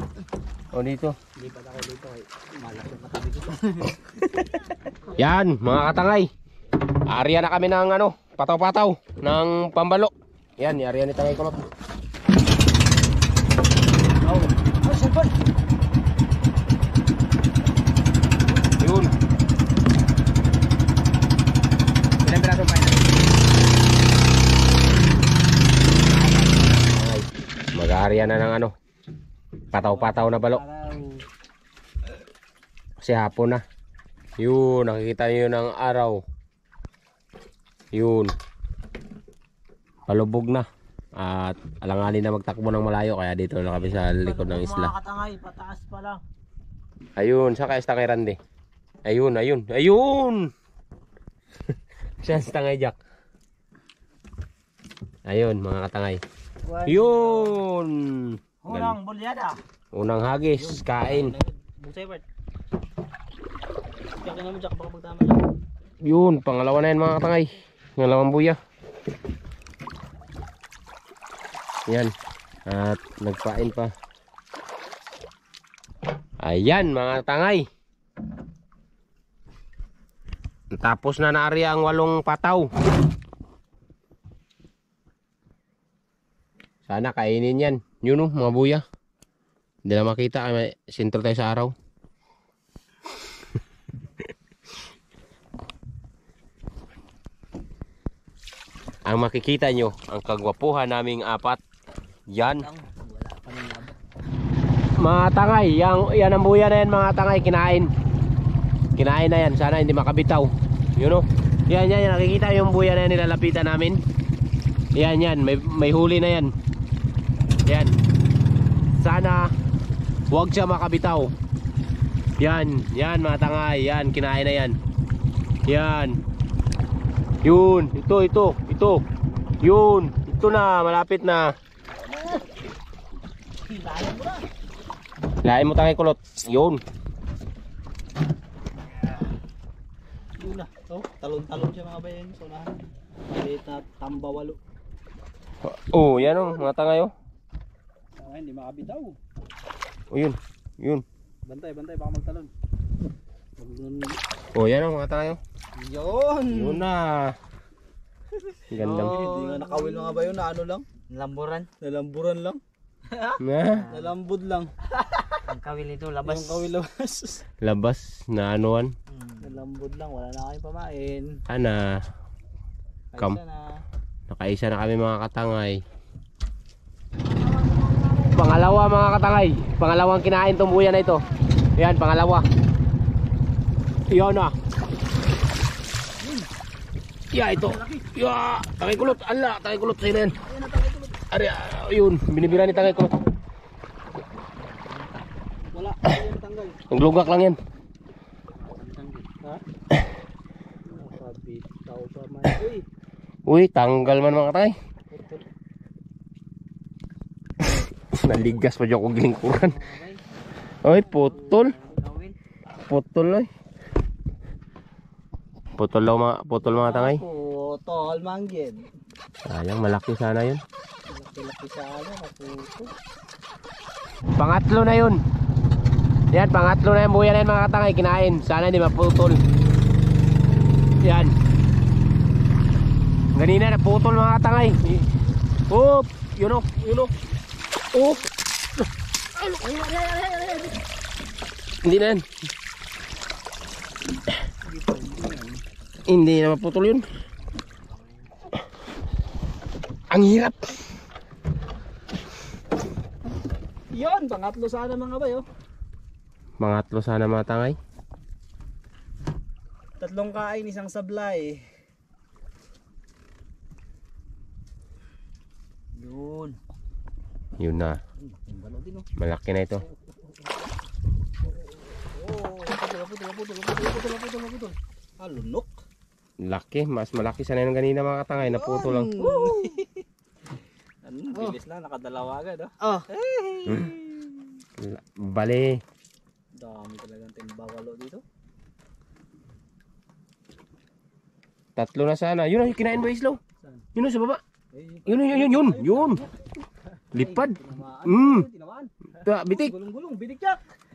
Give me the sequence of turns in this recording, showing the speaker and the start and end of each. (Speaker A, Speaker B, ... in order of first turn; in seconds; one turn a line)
Speaker A: 0.7-1.2
Speaker B: 1.4-3.9
Speaker A: 5.1-6.3
Speaker A: 7.1-11.6
Speaker B: 14.2-15.3
Speaker A: 18.8-19.1
Speaker A: 22.2-23.2
Speaker A: 26.8-28.7
Speaker A: 29.7-30.6
Speaker B: 29.7-31.2
Speaker A: 33.0-33.6
Speaker A: 34.4-36.2
Speaker A: 37.9-38.4
Speaker A: 40.1-45.0
Speaker B: 43.9-46.1
Speaker A: 47.2-48.4
Speaker A: 49.0-50.5
Speaker A: 52.2-53.0
Speaker A: 55.3-56.2
Speaker B: 56.7-57.6
Speaker A: 56.9-59.0
Speaker B: 58.6-59.6
Speaker A: 59.9-61.3
Speaker B: 60.6-62.2
Speaker B: 64.2-65.4
Speaker A: 66.0-68.6
Speaker A: 71.9-72.1
Speaker A: 72.7-73.9
Speaker A: 76.4-77.7
Speaker A: 80.7-82.7
Speaker A: 86.9-88.8
Speaker A: 89.9-91.7
Speaker A: 99.1-101.6
Speaker A: 102.3-102.7
Speaker B: 102.6-104.0
Speaker A: 105.0-107.9
Speaker A: 109.0-114.0
Speaker A: 114.9-116.5
Speaker A: 117.7-117.9
Speaker A: 119.0-119.5
Speaker A: 120.3-121.3
Speaker A: 122.4-124.8
Speaker A: 125.7-126.2
Speaker A: 127.4-129.0
Speaker A: 129.6-131.5
Speaker B: 131.9-132.5
Speaker B: 133.7-134.5
Speaker A: 135.4-136.8
Speaker B: 140.4-142.8
Speaker B: 143.3-144.6
Speaker A: 145.6-147.1
Speaker B: 148.2-149.2
Speaker A: 150.1-151.1
Speaker B: 151.5-152.5
Speaker B: 153.6-154.2
Speaker A: 154.5-155.4
Speaker B: 155.8-156.9
Speaker A: 156.5-157.4
Speaker A: 158.7-159.2
Speaker C: 158.8-160.3
Speaker B: 158.9-160.9
Speaker C: 161.1-161.7
Speaker B: 161.8-162.6
Speaker B: 163.1-163.4
Speaker A: 163.4-163.8
Speaker C: 163.7-164.1
Speaker B: 163.9-165.3
Speaker C: 165.5-166.7
Speaker B: 166.2-167.4
Speaker A: 167.6-168.9
Speaker B: 169.4-171.4
Speaker A: 171.5-171.9
Speaker B: 173.1-173.8
Speaker A: 174.3-175.8
Speaker A: 178.3-181.2
Speaker A: 181.8-182.5
Speaker A: 184.1-184.6
Speaker B: 186.2-186.5
Speaker A: 187.3-190.3
Speaker B: 187.5-188.1
Speaker B: 188.9-189.2
Speaker B: 190.5-191.2
Speaker A: 191.3-193.2
Speaker B: 192.4-193.2
Speaker B: 195.7-196.8
Speaker A: 196.9-197.6
Speaker C: 198.6-199.3
Speaker B: 200.9-202.8
Speaker A: 203.5-204.7
Speaker B: 205.1-205.4
Speaker A: 208.0-209.8
Speaker C: 209.5-210.2
Speaker A: 210.8-211.7
Speaker C: 211.1-212.3
Speaker A: 212.9-213.5
Speaker A: 215.8-217.2
Speaker B: 216.7-218.8
Speaker A: 219.5-220.6
Speaker B: 221.1-222.9
Speaker A: 224.4-225.2
Speaker A: 226.3-229.4
Speaker A: 231.0-231.3
Speaker A: 233.3-235.1
Speaker A: 235.7-237.1
Speaker A: 237.9-238.3
Speaker B: 239.4-240.7
Speaker A: 241.8-242.2
Speaker B: 244.7-245.6
Speaker A: 246.1-247.1
Speaker A: 250.1-250.8
Speaker B: 253.9-255.4
Speaker A: 256.6-257.8
Speaker B: 260.0-261.6
Speaker B: 266.0-266.5
Speaker A: 267.6-268.0
Speaker B: 268.2-269.1
Speaker A: 269.2-269.9
Speaker B: 272.1-275.7
Speaker A: 276.4-279.1
Speaker B: 278.4-280.0
Speaker C: 278.8-279.8
Speaker B: 281.0-284.6
Speaker A: 284.8-285.8
Speaker B: 286.6-288.2
Speaker A: 291.8-293.4
Speaker A: 293.9-294.4
Speaker B: 294.7-296.3
Speaker A: 295.1-296.2
Speaker A: 297.1-298.5
Speaker B: 297.1-300.6
Speaker A: 299.2-299.8